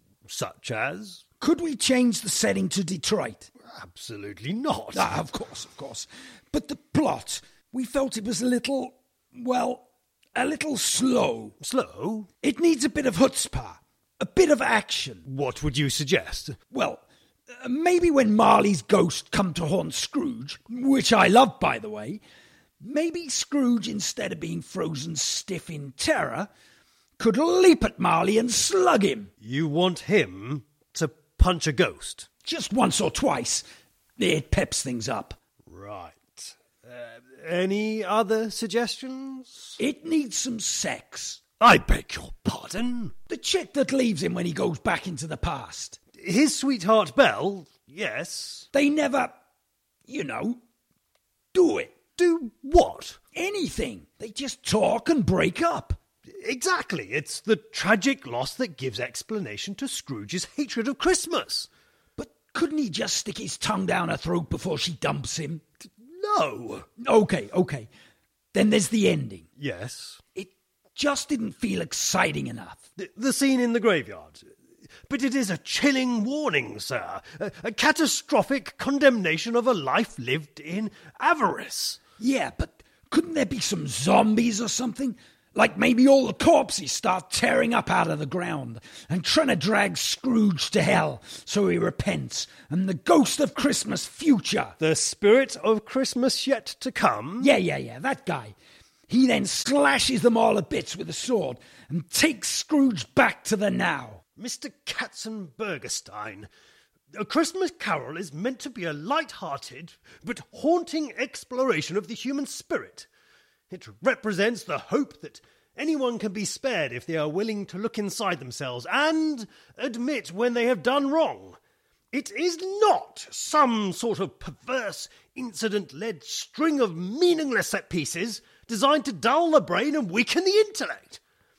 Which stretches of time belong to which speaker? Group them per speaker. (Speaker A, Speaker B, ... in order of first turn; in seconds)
Speaker A: 0.3-1.2, 3.6-5.2, 11.6-12.3, 15.2-16.6, 29.4-32.3, 35.7-39.8, 41.6-43.1, 46.2-48.6, 52.2-53.2, 56.3-61.7, 65.8-66.9, 69.6-70.2, 73.0-74.5, 75.1-82.0, 94.8-97.5, 104.4-106.5, 107.1-113.1, 113.7-121.6, 122.1-131.2
Speaker B: 1.4-3.5, 4.9-11.5, 12.4-15.2, 16.7-22.2, 22.8-26.5, 27.2-29.3, 32.4-33.6, 34.2-35.4, 39.8-41.4, 43.3-46.0, 48.7-49.4, 50.1-50.6, 51.5-51.9, 53.3-56.0, 62.2-65.6, 67.0-67.9, 68.5-69.5, 70.3-72.8, 82.2-94.7, 97.4-98.5, 99.1-104.2